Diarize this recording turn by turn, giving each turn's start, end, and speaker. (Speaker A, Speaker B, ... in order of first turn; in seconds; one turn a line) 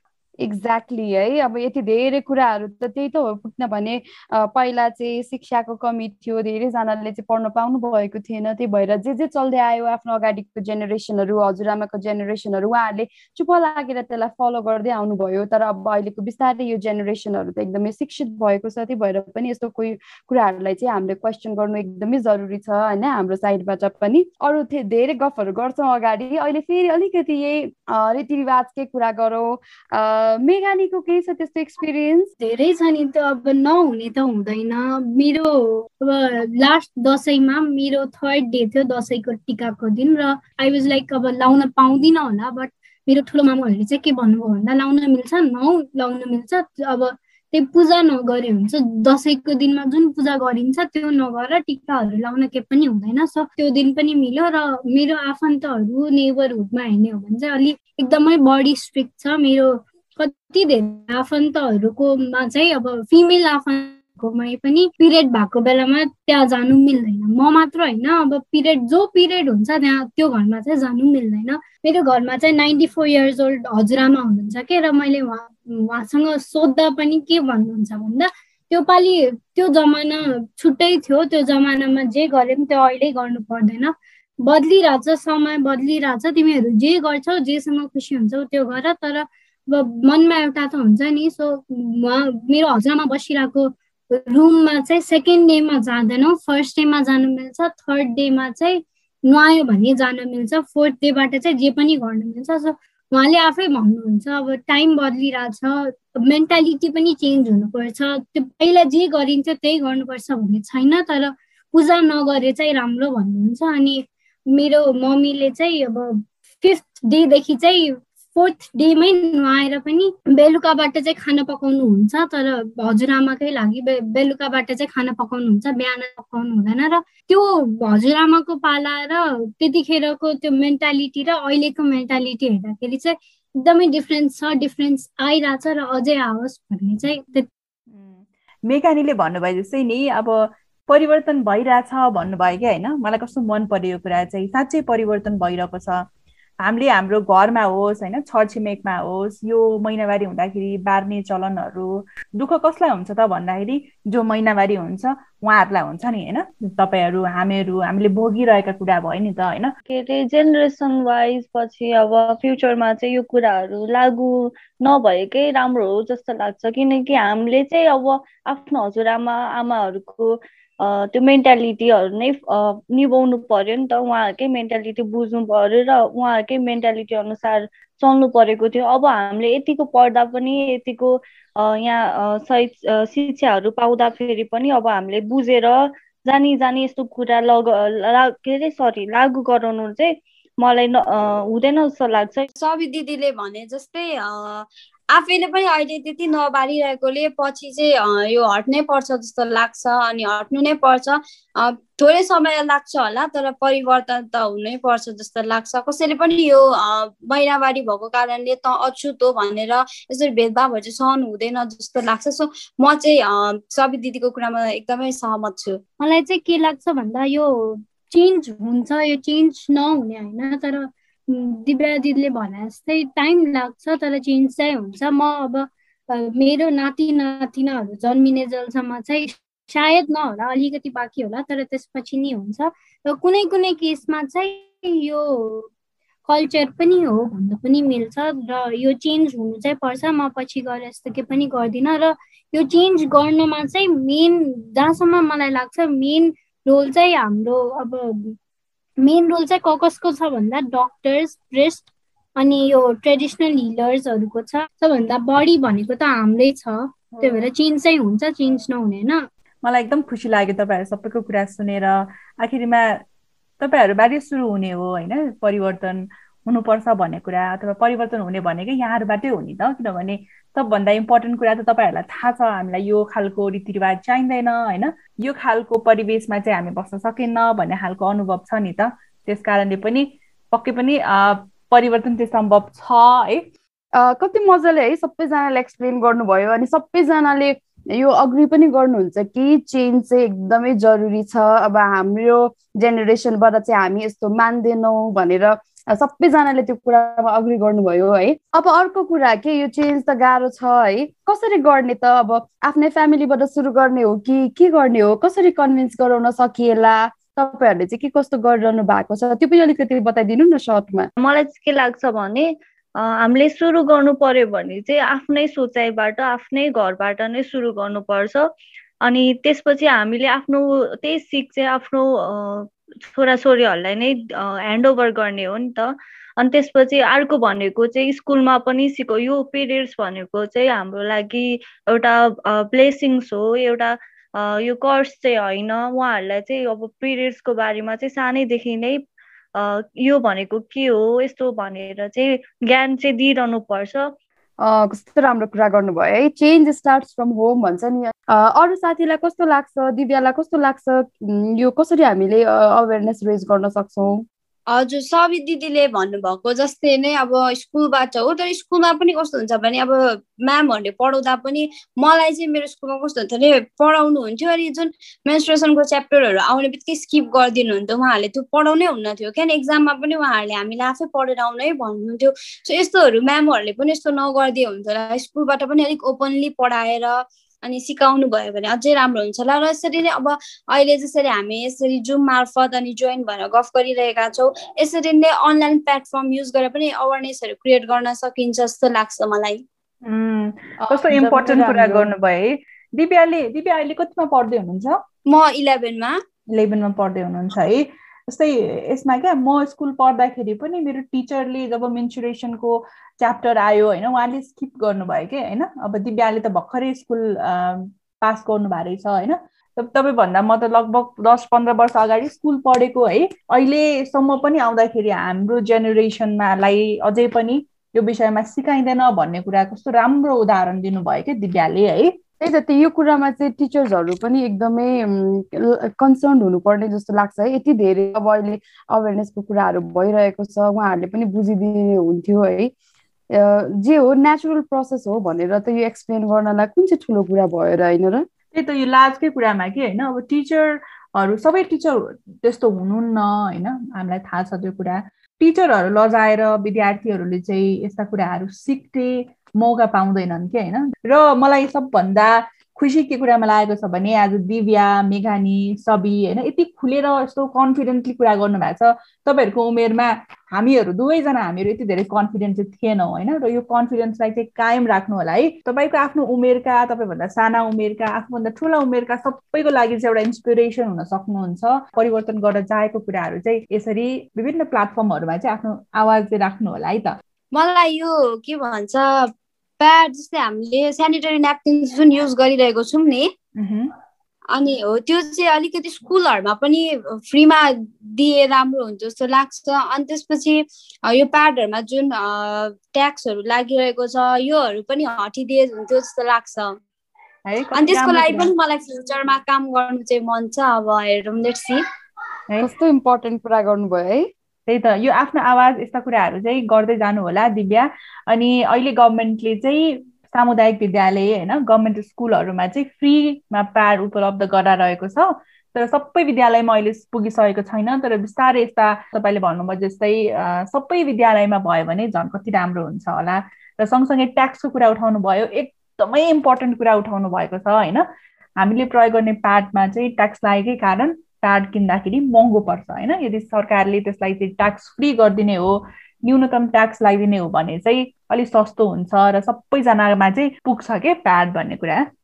Speaker A: 0.4-32.3
Speaker B: 32.4-137.5
Speaker C: 137.9-146.0
Speaker C: 146.6-159.7
Speaker D: 159.9-190.1
Speaker D: 190.6-192.5
Speaker E: 192.6-215.8
Speaker B: 216.0-235.7
Speaker B: 236.2-248.3
Speaker B: 249.0-259.2
Speaker C: 257.1-257.5
Speaker C: 259.6-263.0
Speaker C: 263.6-283.4
Speaker A: 284.0-311.1
Speaker D: 311.2-312.4
Speaker D: 313.0-318.4
Speaker D: 319.0-325.9
Speaker D: 326.4-339.0
Speaker D: 339.6-344.1
Speaker A: 344.6-354.2
Speaker E: 354.7-389.6
Speaker C: 390.0-395.0
Speaker A: 390.8-392.1
Speaker E: 395.3-396.1
Speaker C: 396.5-422.1
Speaker A: 422.4-432.7
Speaker A: 433.4-438.2
Speaker C: 438.5-477.1
Speaker E: 477.5-483.3
Speaker C: 483.6-483.9
Speaker E: 484.5-496.8
Speaker C: 497.4-498.5
Speaker E: 497.7-501.8
Speaker A: 502.6-504.3
Speaker C: 504.7-528.0
Speaker C: 528.6-542.0